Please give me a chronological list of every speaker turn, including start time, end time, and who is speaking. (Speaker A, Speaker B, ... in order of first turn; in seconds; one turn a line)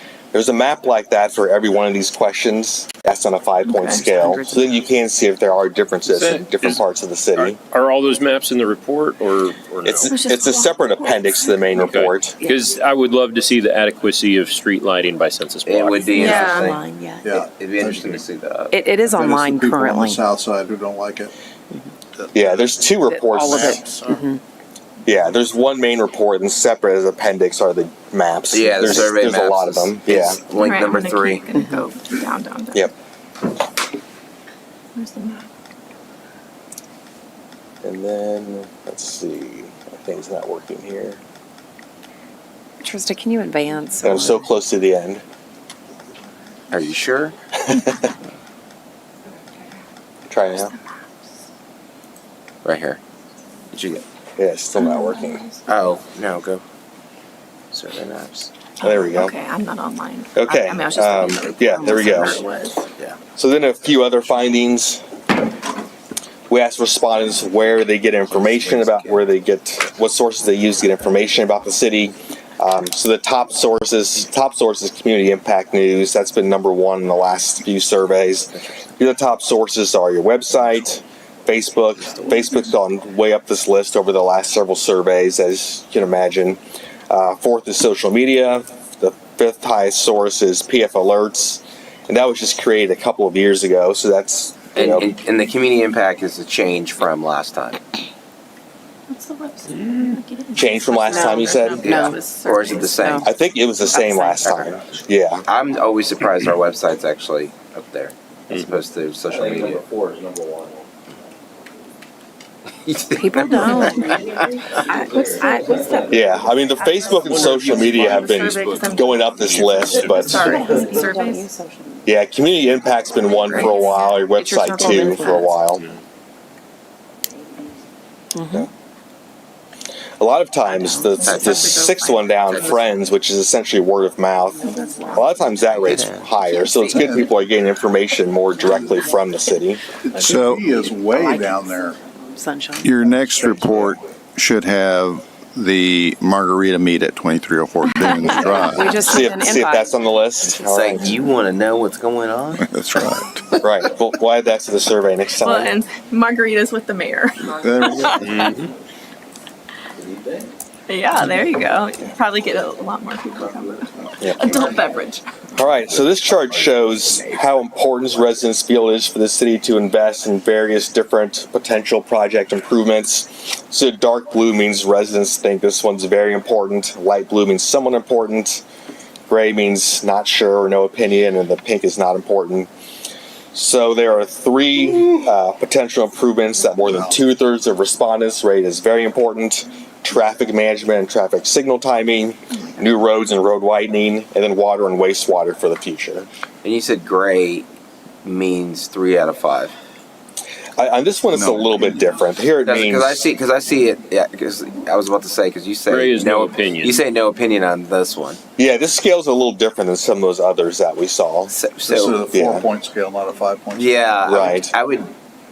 Speaker A: 0.3-7.6
Speaker B: 3.8-4.7
Speaker C: 6.1-6.8
Speaker C: 7.4-10.2
Speaker A: 9.8-12.4
Speaker D: 10.0-12.0
Speaker C: 11.8-16.5
Speaker B: 12.3-12.7
Speaker E: 15.7-16.8
Speaker D: 16.1-16.7
Speaker B: 16.1-17.4
Speaker F: 17.2-18.2
Speaker E: 17.4-18.8
Speaker B: 18.7-20.2
Speaker F: 19.1-21.3
Speaker F: 22.1-24.3
Speaker A: 22.3-23.9
Speaker B: 23.1-24.4
Speaker A: 25.1-30.4
Speaker E: 28.5-31.5
Speaker D: 30.5-32.9
Speaker B: 31.5-31.9
Speaker D: 35.0-35.5
Speaker A: 37.8-41.2
Speaker B: 42.8-44.5
Speaker A: 44.0-45.2
Speaker E: 46.7-47.4
Speaker A: 50.3-50.7
Speaker E: 52.6-53.0
Speaker E: 53.7-54.0
Speaker A: 54.4-55.5
Speaker D: 54.8-55.6
Speaker E: 55.7-56.6
Speaker E: 57.7-58.5
Speaker D: 58.8-62.8
Speaker A: 58.8-59.3
Speaker A: 60.4-62.4
Speaker B: 61.0-62.5
Speaker A: 63.4-65.0
Speaker A: 66.5-95.1
Speaker E: 68.3-69.2
Speaker E: 94.8-97.8
Speaker D: 99.1-103.2
Speaker A: 100.6-102.1
Speaker B: 101.1-102.2
Speaker E: 101.8-103.3
Speaker B: 103.0-103.3
Speaker A: 103.2-105.5
Speaker B: 103.9-104.7
Speaker E: 105.5-109.8
Speaker C: 109.4-110.6
Speaker E: 112.8-114.8
Speaker B: 113.1-114.2
Speaker D: 113.9-114.2
Speaker D: 114.7-117.3
Speaker A: 116.1-120.5
Speaker C: 117.2-120.6
Speaker D: 117.9-121.5
Speaker B: 120.3-122.0
Speaker A: 122.1-125.8
Speaker D: 123.2-124.3
Speaker B: 123.5-123.8
Speaker B: 124.4-125.6
Speaker D: 124.9-125.3
Speaker B: 128.3-128.7
Speaker A: 130.2-139.8
Speaker D: 130.7-132.5
Speaker E: 131.2-131.8
Speaker E: 132.5-132.8
Speaker D: 134.6-136.0
Speaker E: 135.8-136.3
Speaker D: 136.5-136.9
Speaker F: 136.7-137.4
Speaker D: 138.6-139.1
Speaker F: 138.7-139.1
Speaker F: 140.0-142.0
Speaker G: 140.2-140.6
Speaker B: 140.3-143.0
Speaker G: 142.8-149.0
Speaker F: 143.0-144.0
Speaker D: 148.1-148.5
Speaker B: 148.4-149.9
Speaker A: 149.0-151.2
Speaker E: 150.6-152.7
Speaker G: 152.6-153.5
Speaker A: 153.6-155.7
Speaker D: 155.4-158.6
Speaker G: 157.4-158.5
Speaker C: 158.2-158.7
Speaker D: 160.9-165.7
Speaker A: 164.2-164.5
Speaker A: 165.6-178.6
Speaker A: 179.3-182.7
Speaker A: 183.5-196.3
Speaker F: 186.8-187.2
Speaker D: 192.5-192.9
Speaker E: 196.6-197.7
Speaker E: 198.2-199.7
Speaker A: 200.8-203.2
Speaker G: 201.3-201.9
Speaker E: 202.6-208.4
Speaker C: 205.9-207.0
Speaker A: 208.6-211.5
Speaker E: 211.5-212.3
Speaker F: 211.9-214.0
Speaker A: 212.3-212.7
Speaker E: 213.8-215.1
Speaker A: 214.2-214.7